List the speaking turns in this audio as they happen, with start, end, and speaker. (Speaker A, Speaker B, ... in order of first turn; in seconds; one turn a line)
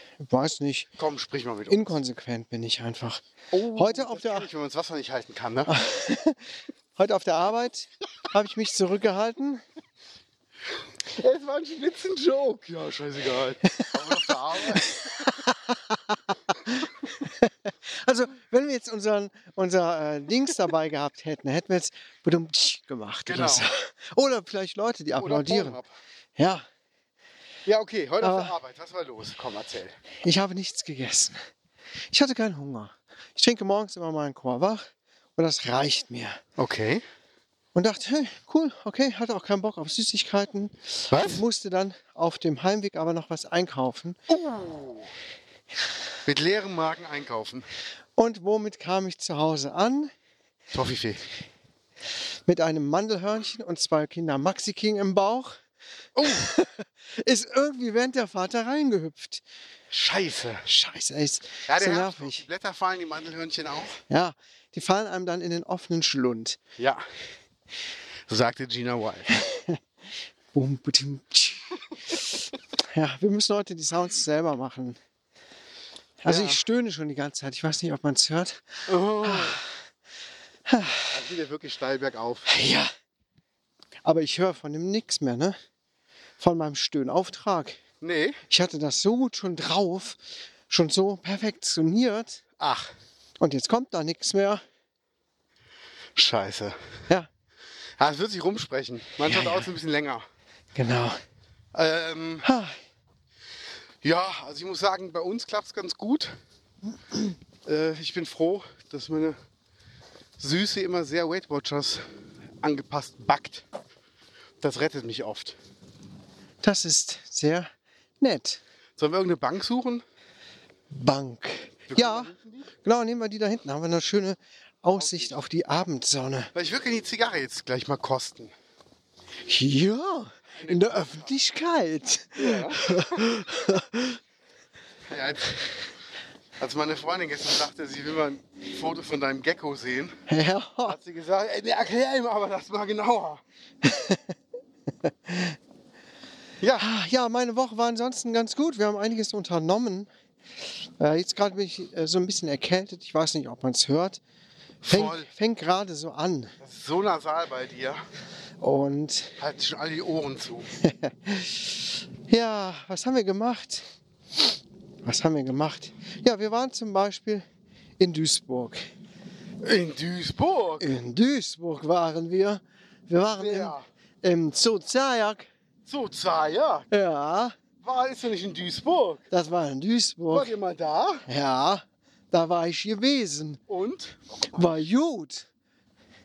Speaker A: 0.2-0.9
Speaker B: 1.0-2.0
Speaker A: 1.7-4.5
Speaker B: 3.5-5.7
Speaker A: 5.7-9.6
Speaker B: 11.1-15.4
Speaker A: 13.7-25.8
Speaker B: 23.3-23.7
Speaker B: 25.2-25.9
Speaker A: 26.4-26.6
Speaker B: 27.7-30.0
Speaker A: 28.2-28.6
Speaker A: 30.2-31.4
Speaker A: 32.1-34.9
Speaker A: 35.4-36.4
Speaker B: 36.6-37.0
Speaker A: 37.8-44.2
Speaker B: 41.1-41.4
Speaker B: 44.3-45.1
Speaker B: 46.2-47.6
Speaker A: 48.2-50.1
Speaker B: 50.7-51.2
Speaker A: 52.5-55.6
Speaker B: 56.2-56.5
Speaker A: 56.2-59.4
Speaker B: 59.9-60.7
Speaker A: 60.6-62.4
Speaker B: 61.7-64.0
Speaker A: 64.1-66.6
Speaker B: 66.8-67.0
Speaker B: 68.3-69.3
Speaker A: 69.3-69.8
Speaker A: 70.5-75.0
Speaker A: 76.2-79.7
Speaker B: 76.3-76.6
Speaker B: 78.9-79.6
Speaker A: 80.7-81.2
Speaker B: 81.1-82.5
Speaker A: 82.5-82.9
Speaker A: 84.0-85.6
Speaker A: 86.4-87.8
Speaker B: 88.0-88.4
Speaker A: 88.5-92.4
Speaker B: 92.6-92.9
Speaker A: 93.4-94.6
Speaker B: 96.2-96.8
Speaker B: 98.0-100.2
Speaker A: 99.3-99.7
Speaker A: 100.8-101.2
Speaker B: 101.7-102.5
Speaker A: 102.4-102.8
Speaker B: 104.0-106.3
Speaker B: 107.7-109.4
Speaker B: 110.4-112.0
Speaker B: 112.6-113.7
Speaker B: 114.6-115.6
Speaker A: 116.6-117.7
Speaker A: 118.2-118.6
Speaker B: 119.0-120.0
Speaker A: 120.9-126.5
Speaker B: 121.9-122.7
Speaker B: 125.0-125.4
Speaker B: 126.5-128.5
Speaker A: 129.4-134.2
Speaker B: 130.6-131.3
Speaker B: 132.4-133.2
Speaker B: 135.1-135.7
Speaker B: 136.6-140.2
Speaker A: 140.3-141.0
Speaker B: 140.8-143.4
Speaker A: 143.8-144.3
Speaker A: 145.0-145.6
Speaker B: 146.6-146.9
Speaker A: 146.8-150.1
Speaker A: 151.0-154.2
Speaker B: 154.8-155.3
Speaker A: 154.9-156.6
Speaker B: 156.6-158.0
Speaker A: 158.6-159.4
Speaker B: 159.4-160.7
Speaker A: 160.8-163.9
Speaker A: 165.0-167.5
Speaker A: 168.0-168.8
Speaker B: 169.6-170.9
Speaker A: 170.8-175.5
Speaker B: 173.3-173.8
Speaker B: 175.9-176.9
Speaker A: 176.9-177.6
Speaker B: 177.8-179.2
Speaker A: 179.3-180.6
Speaker B: 180.3-181.2
Speaker A: 181.3-183.6
Speaker B: 183.7-184.2
Speaker A: 184.5-185.5